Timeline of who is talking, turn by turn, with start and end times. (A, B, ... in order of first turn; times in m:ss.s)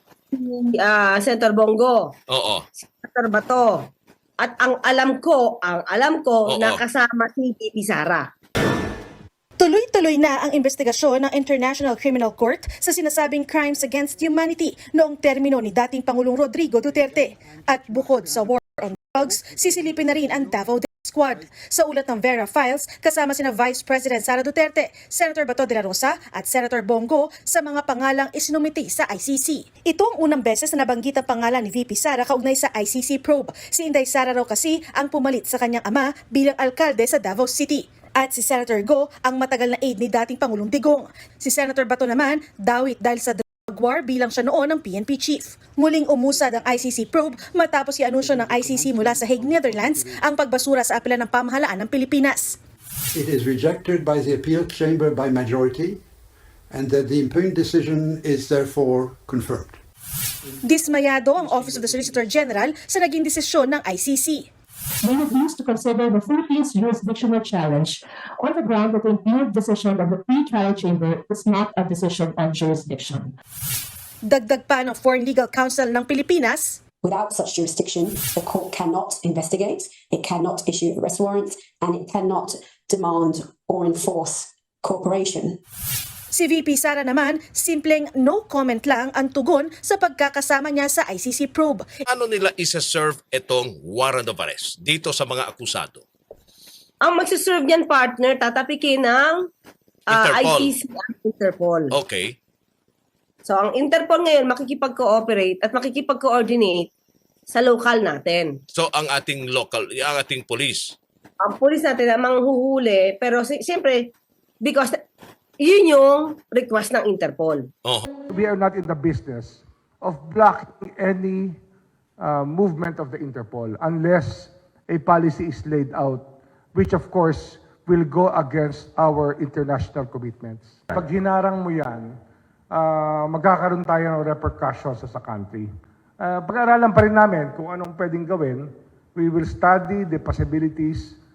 0:00.3-0:02.1 A
0:02.3-0:02.6 B
0:02.8-0:03.9 A
0:04.4-0:08.3 A
0:06.5-0:06.8 B
0:09.6-0:52.6 C
0:53.1-0:56.0 D
0:56.7-0:59.8 D
1:00.6-1:04.5 C
1:05.0-1:13.3 E
1:14.2-1:16.8 C
1:17.0-1:25.6 F
1:26.3-1:31.8 C
1:32.1-1:36.0 B
1:37.0-1:39.5 A
1:40.1-1:40.7 B
1:40.1-1:41.9 A
1:41.9-1:42.4 B
1:43.4-1:46.9 A
1:47.5-1:48.6 A
1:48.7-1:51.0 B
1:51.4-1:55.0 A
1:55.6-1:57.7 A
1:58.3-2:01.6 G
2:02.2-2:12.1 G
2:12.7-2:21.2 G